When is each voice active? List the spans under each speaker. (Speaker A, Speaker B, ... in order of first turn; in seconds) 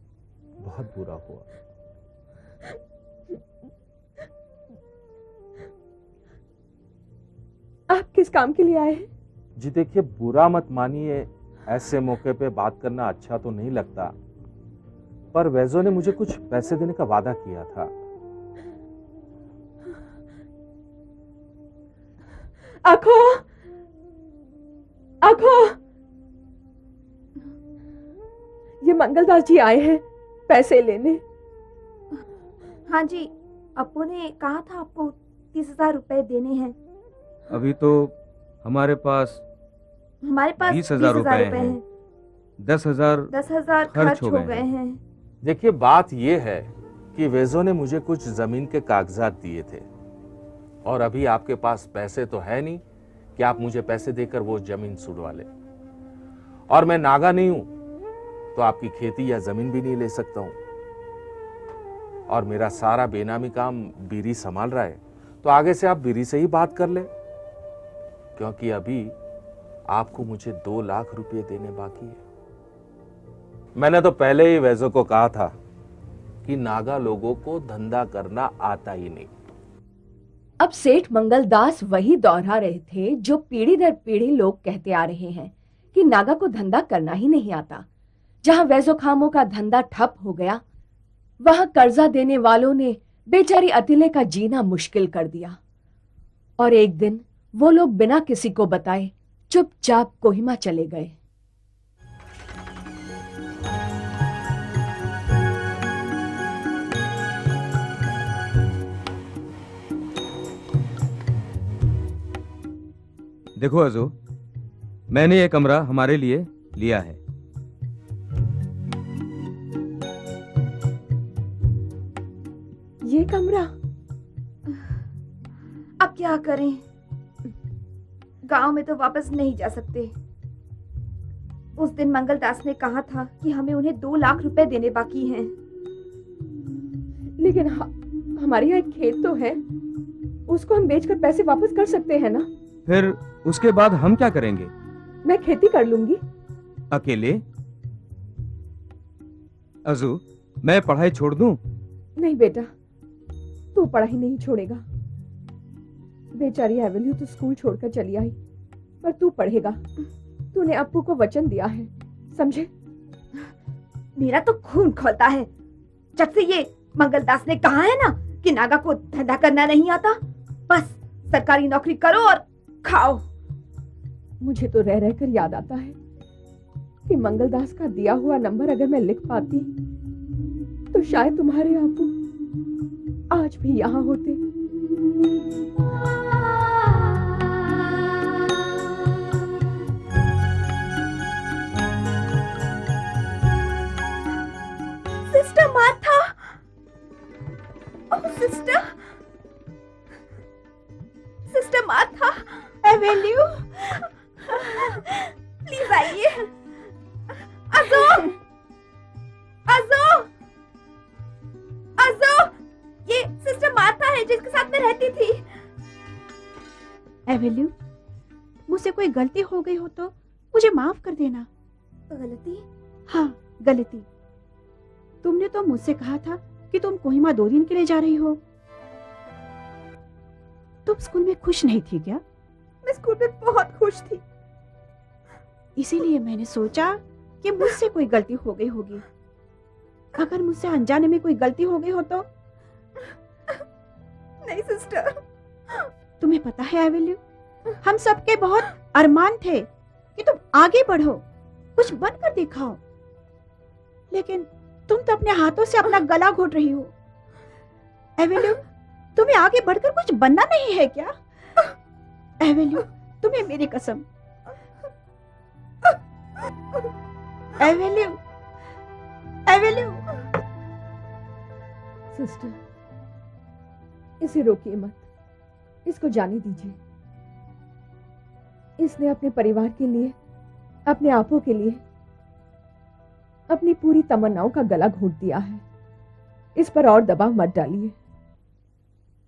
Speaker A: 0.6-1.4, 9.6-14.1, 15.3-17.9, 45.4-49.9, 50.8-52.8, 53.4-55.5, 56.7-57.7, 58.5-60.5, 62.3-67.1, 68.3-69.2, 69.9-72.2, 73.8-75.5, 76.4-79.3
Speaker B: 7.9-9.1, 22.8-23.4, 25.2-25.8, 28.8-31.2, 80.6-87.8, 88.4-90.6, 91.4-95.6, 96.6-101.1, 123.0-123.7, 137.4-139.6, 140.5-142.5, 145.2-146.2, 152.2-152.7, 153.7-154.8, 156.3-158.3, 159.0-159.8, 160.5-162.7, 174.4-175.9, 177.1-179.7, 180.9-182.1, 183.3-184.4, 272.1-272.6, 274.2-275.0, 275.9-276.8, 278.8-280.1, 280.9-281.8, 283.5-285.6, 286.6-287.9
Speaker C: 32.9-36.8, 40.2-41.8, 43.3-45.0, 126.0-126.8, 128.4-130.1, 131.8-135.5, 164.2-165.5, 166.2-173.2, 195.3-196.6, 198.1-198.9, 201.5-203.2, 204.5-205.1, 205.6-206.5, 207.7-208.4, 209.7-210.3, 212.0-212.5, 213.1-215.5, 222.1-222.6, 232.8-234.2, 244.4-245.2
Speaker D: 37.5-39.4, 40.6-41.8, 42.6-43.3, 43.9-44.6, 113.6-114.1, 115.1-117.2, 142.8-144.7, 146.9-147.4, 149.8-151.6
Speaker E: 202.8-203.6, 217.3-217.7, 218.7-221.5, 223.1-224.1, 225.2-228.4, 230.8-232.2, 235.8-239.0, 240.2-242.2, 246.2-247.2, 247.8-251.2, 251.8-252.8, 254.1-256.9, 258.2-258.6, 259.1-261.1, 262.4-264.0, 267.6-268.2, 269.5-270.0